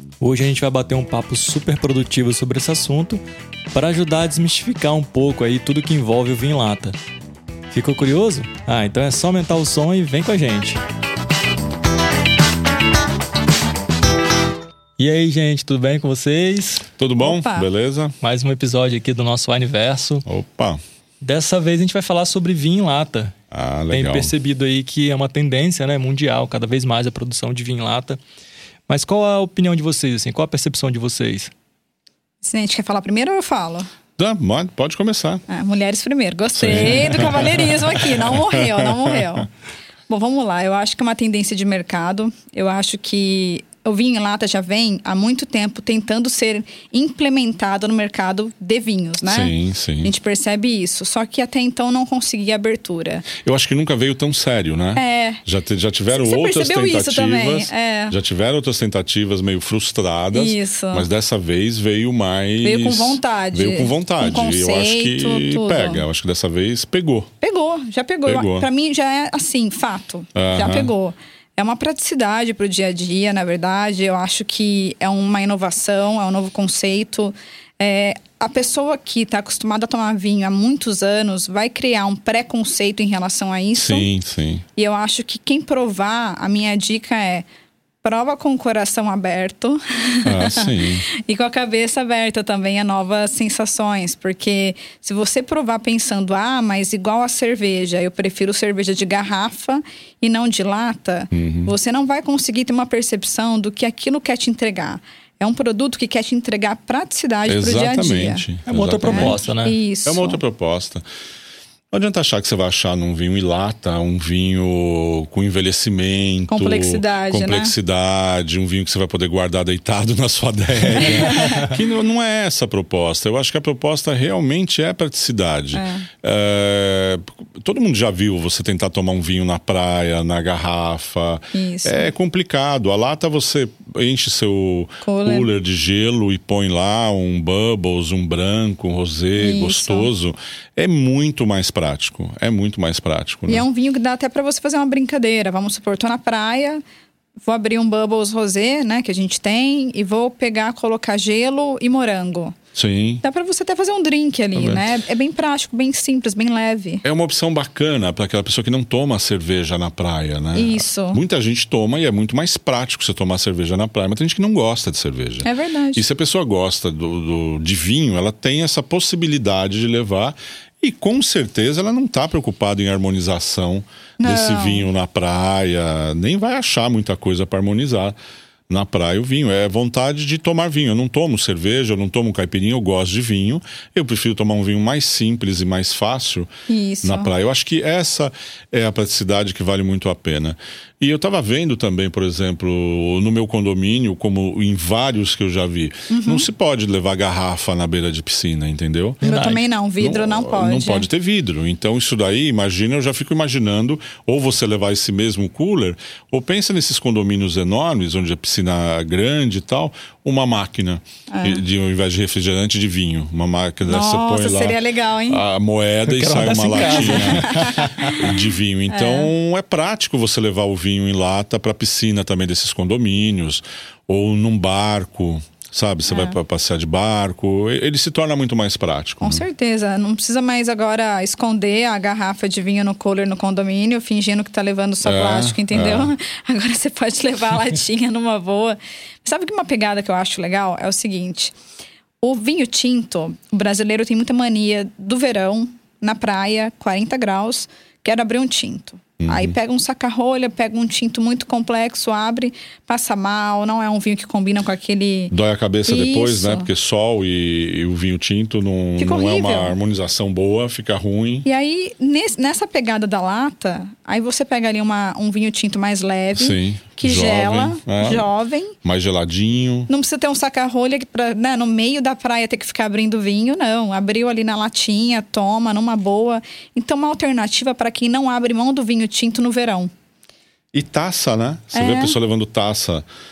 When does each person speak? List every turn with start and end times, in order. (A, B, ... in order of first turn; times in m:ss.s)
0:00.2-0:07.0 A
0:07.7-0:10.8 A
0:15.0-0:16.8 A
0:17.0-0:18.2 B
0:17.2-0:17.7 C
0:18.2-0:20.2 A
0:20.2-0:20.8 B
0:21.2-0:23.3 A
0:23.5-0:24.3 B
0:23.9-0:28.2 A
0:28.9-0:31.5 A
0:32.4-0:33.9 C
0:34.2-0:35.4 B
0:35.5-0:39.5 C
0:36.5-0:39.2 B
0:40.1-0:53.3 C
0:49.2-0:50.1 B
0:53.4-1:07.3 B
0:54.9-0:55.4 C
0:56.1-0:58.2 C
1:00.3-1:01.1 C
1:02.6-1:06.0 C
1:07.4-1:24.1 C
1:08.2-1:08.7 B
1:10.3-1:10.9 B
1:23.8-1:24.6 B
1:24.8-1:27.5 C
1:28.0-1:48.4 C
1:30.2-1:31.0 B
1:41.3-1:41.7 B
1:47.5-1:49.4 B
1:48.7-1:49.8 A
1:49.1-1:50.4 C
1:50.0-1:51.0 B
1:51.9-2:23.6 B
1:56.5-1:57.8 C
2:01.0-2:01.6 C
2:05.7-2:06.1 C
2:11.5-2:12.1 C
2:15.0-2:15.5 C
2:19.4-2:20.1 C
2:23.5-2:26.8 C
2:27.4-2:32.6 C
2:32.7-2:33.2 B
2:33.2-2:37.0 C
2:34.5-2:35.0 B
2:37.0-2:58.2 B
2:40.5-2:41.2 C
2:45.4-2:46.0 C
2:54.2-2:54.9 C
2:58.7-3:06.5 B
3:06.7-3:07.3 C
3:07.0-3:19.3 B
3:16.1-3:16.5 C
3:19.2-3:19.6 A
3:19.2-3:21.1 C
3:20.0-3:49.4 B
3:31.3-3:31.6 C
3:33.8-3:35.4 C
3:36.0-3:38.1 A
3:36.7-3:38.4 C
3:38.9-3:39.3 C
3:46.1-3:46.4 C
3:49.2-4:01.5 C
3:55.0-3:56.1 B
4:02.2-4:15.3 C
4:09.2-4:09.6 B
4:15.3-4:21.5 B
4:15.8-4:16.7 C
4:19.0-4:19.8 C
4:21.4-4:28.8 C
4:26.3-4:28.3 B
4:28.8-4:29.9 B
4:29.9-4:39.9 C
4:40.7-4:43.0 B
4:41.7-4:42.2 C